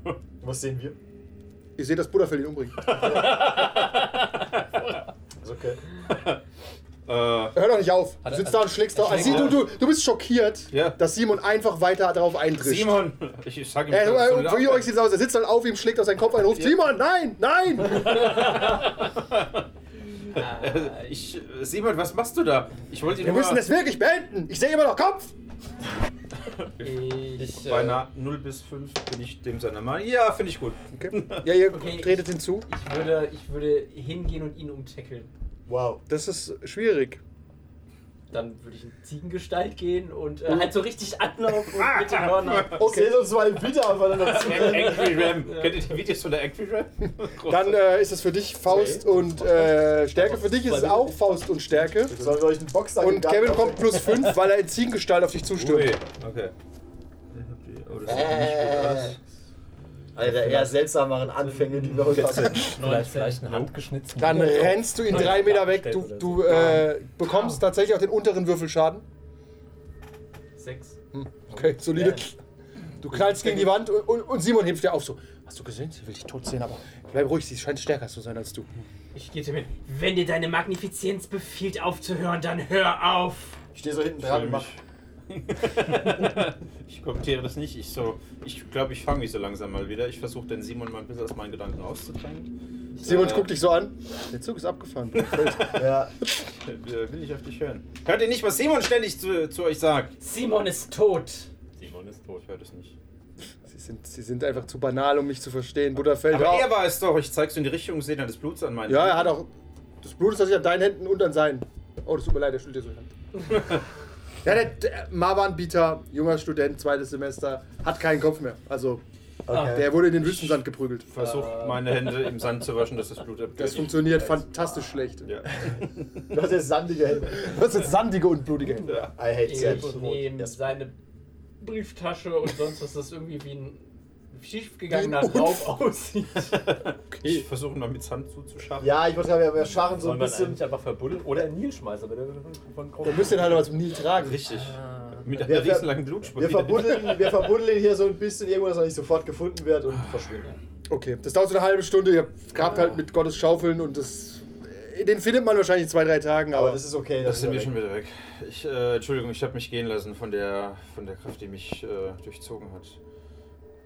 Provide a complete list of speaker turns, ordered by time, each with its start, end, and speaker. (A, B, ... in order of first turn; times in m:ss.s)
0:00.4-0:01.0 A
0:01.8-0:03.1 B
0:03.1-0:04.0 C
0:05.4-0:05.8 A
0:06.1-0:06.4 D
0:07.1-0:07.6 D
0:07.5-0:13.1 B
0:08.2-0:09.6 C
0:09.0-0:09.6 D
0:10.7-0:11.0 D
0:12.6-0:14.9 D
0:13.9-0:18.7 B
0:16.5-0:16.8 D
0:18.0-0:19.6 D
0:20.3-0:23.6 D
0:20.3-0:21.0 E
0:23.2-0:25.3 B
0:26.6-0:31.6 D
0:26.8-0:27.8 E
0:27.4-0:28.0 C
0:30.9-0:32.7 B
0:31.7-0:35.3 E
0:35.6-0:36.0 A
0:36.1-0:37.2 B
0:38.3-0:43.2 E
0:41.7-0:42.9 D
0:42.7-0:45.3 A
0:44.2-0:47.8 D
0:44.4-0:45.9 E
0:47.4-0:52.4 B
0:48.7-0:51.5 C
0:52.1-0:54.3 A
0:53.0-0:56.0 B
0:55.5-0:56.5 D
0:57.3-0:59.2 D
0:58.0-0:59.1 A
1:00.1-1:02.9 A
1:01.9-1:07.0 C
1:02.0-1:02.7 D
1:02.8-1:03.5 E
1:04.1-1:09.0 B
1:07.2-1:07.6 E
1:10.6-1:11.0 E
1:11.1-1:12.3 B
1:13.0-1:18.7 B
1:19.1-1:23.6 E
1:23.7-1:24.7 A
1:24.2-1:33.5 D
1:33.0-1:35.8 B
1:35.2-1:35.8 D
1:35.7-1:36.1 A
1:36.4-1:40.1 D
1:40.2-1:41.5 E
1:41.8-1:42.4 C
1:42.4-1:43.0 D
1:43.6-1:46.7 B
1:46.3-1:49.3 D
1:48.9-1:49.5 B
1:50.0-1:53.6 B
1:54.4-1:59.0 B
1:59.4-2:00.1 A
1:59.5-1:59.8 E
1:59.6-2:01.0 B
2:00.2-2:04.3 D
2:01.1-2:01.9 E
2:03.6-2:05.3 B
2:05.2-2:06.2 D
2:06.3-2:07.6 A
2:07.3-2:09.1 B
2:08.8-2:09.1 D
2:09.2-2:10.6 A
2:09.3-2:11.0 E
2:11.6-2:16.6 E
2:14.9-2:15.7 B
2:16.5-2:19.0 D
2:17.1-2:17.4 B
2:18.8-2:20.6 A
2:19.9-2:23.7 C
2:23.0-2:24.4 B
2:24.2-2:27.2 D
2:25.4-2:30.5 A
2:30.9-2:36.8 B
2:32.6-2:33.0 D
2:36.5-2:37.8 A
2:37.2-2:43.0 D